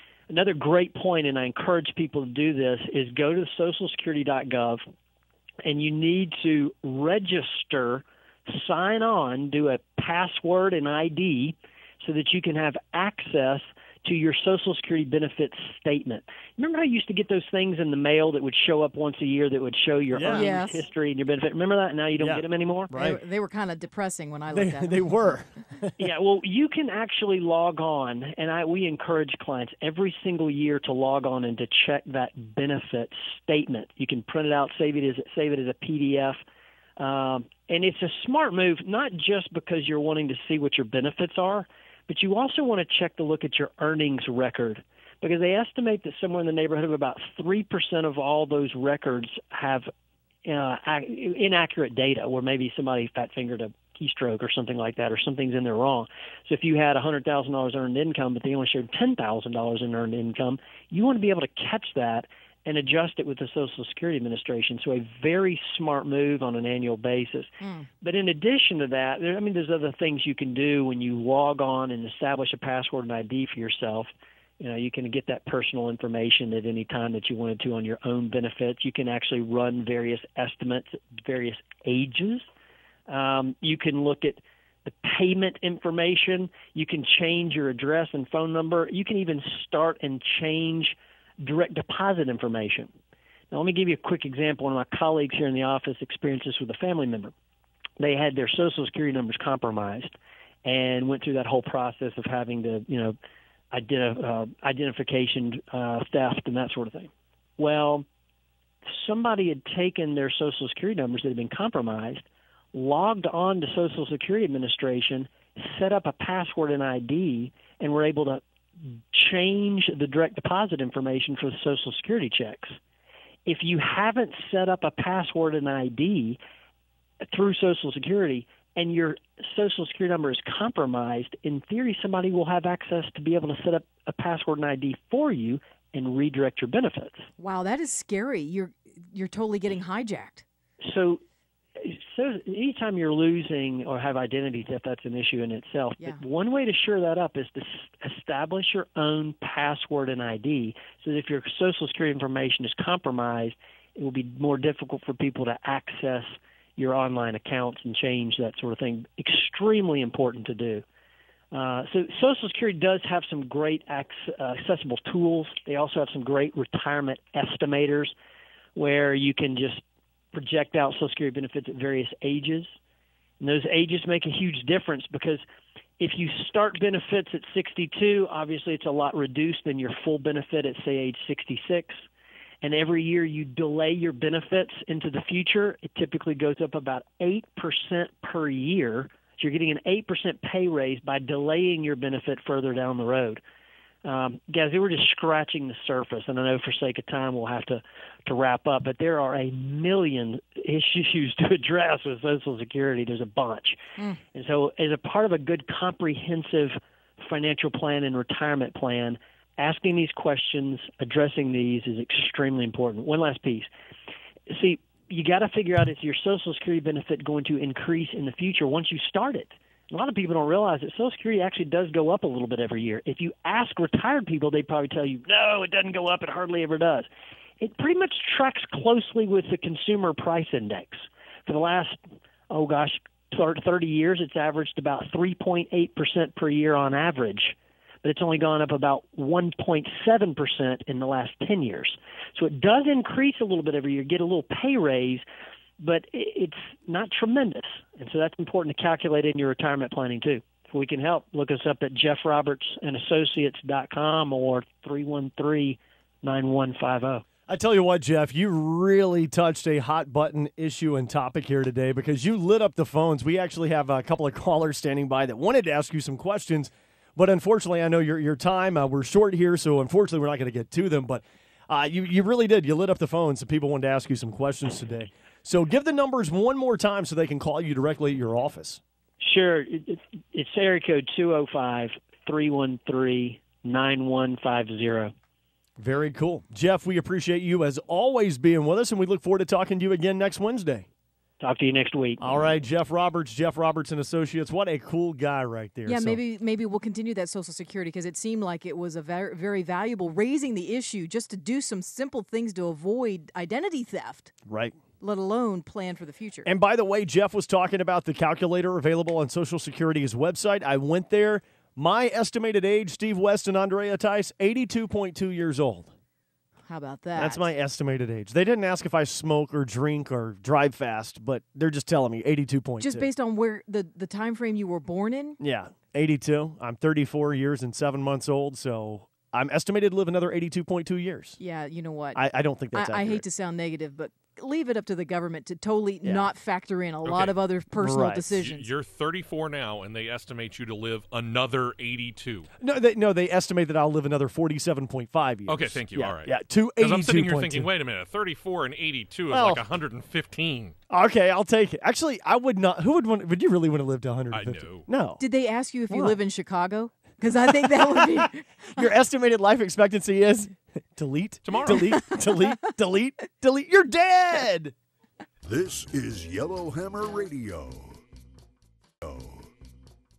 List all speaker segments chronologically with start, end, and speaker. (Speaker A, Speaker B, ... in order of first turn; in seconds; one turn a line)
Speaker A: 0.3-4.8
Speaker A: 5.7-22.9
Speaker B: 20.1-20.5
Speaker C: 20.3-20.9
Speaker B: 22.2-23.2
Speaker C: 22.9-25.2
Speaker B: 24.5-26.0
Speaker A: 26.0-36.4
Speaker A: 37.0-49.9
Speaker A: 50.5-74.1
Speaker C: 67.6-67.9
Speaker A: 74.6-82.5
Speaker A: 83.1-92.9
Speaker A: 93.5-97.3
Speaker A: 98.0-100.1
Speaker A: 100.7-103.2
Speaker A: 103.7-108.0
Speaker A: 108.9-122.8
Speaker A: 123.5-126.4
Speaker A: 127.3-137.3
Speaker C: 137.4-140.4
Speaker A: 140.8-141.2
Speaker A: 141.8-160.8
Speaker A: 161.5-168.1
Speaker A: 168.8-169.8
Speaker A: 170.3-172.7
Speaker A: 173.4-175.4
Speaker A: 176.0-182.0
Speaker A: 182.6-193.4
Speaker A: 194.1-203.8
Speaker A: 204.3-213.7
Speaker A: 214.5-227.1
Speaker A: 227.6-232.0
Speaker A: 232.5-245.2
Speaker A: 245.8-257.2
Speaker B: 257.5-278.8
Speaker A: 279.2-285.1
Speaker B: 285.8-290.9
Speaker A: 291.4-292.4
Speaker B: 292.2-296.2
Speaker C: 295.9-304.4
Speaker B: 304.5-304.8
Speaker C: 305.0-306.5
Speaker B: 306.4-315.9
Speaker C: 316.7-317.5
Speaker B: 317.2-323.1
Speaker C: 322.8-325.4
Speaker B: 325.4-331.4
Speaker C: 331.4-338.7
Speaker B: 332.1-333.2
Speaker B: 336.0-336.3
Speaker D: 337.1-337.4
Speaker B: 337.8-338.3
Speaker D: 338.3-342.5
Speaker B: 342.6-347.7
Speaker D: 345.5-350.8
Speaker B: 349.3-349.6
Speaker B: 350.9-355.2
Speaker D: 354.3-354.9
Speaker C: 355.2-358.8
Speaker B: 355.9-356.2
Speaker B: 357.9-358.2
Speaker B: 358.8-364.8
Speaker D: 361.4-362.0
Speaker E: 365.5-368.0
Speaker E: 369.0-369.5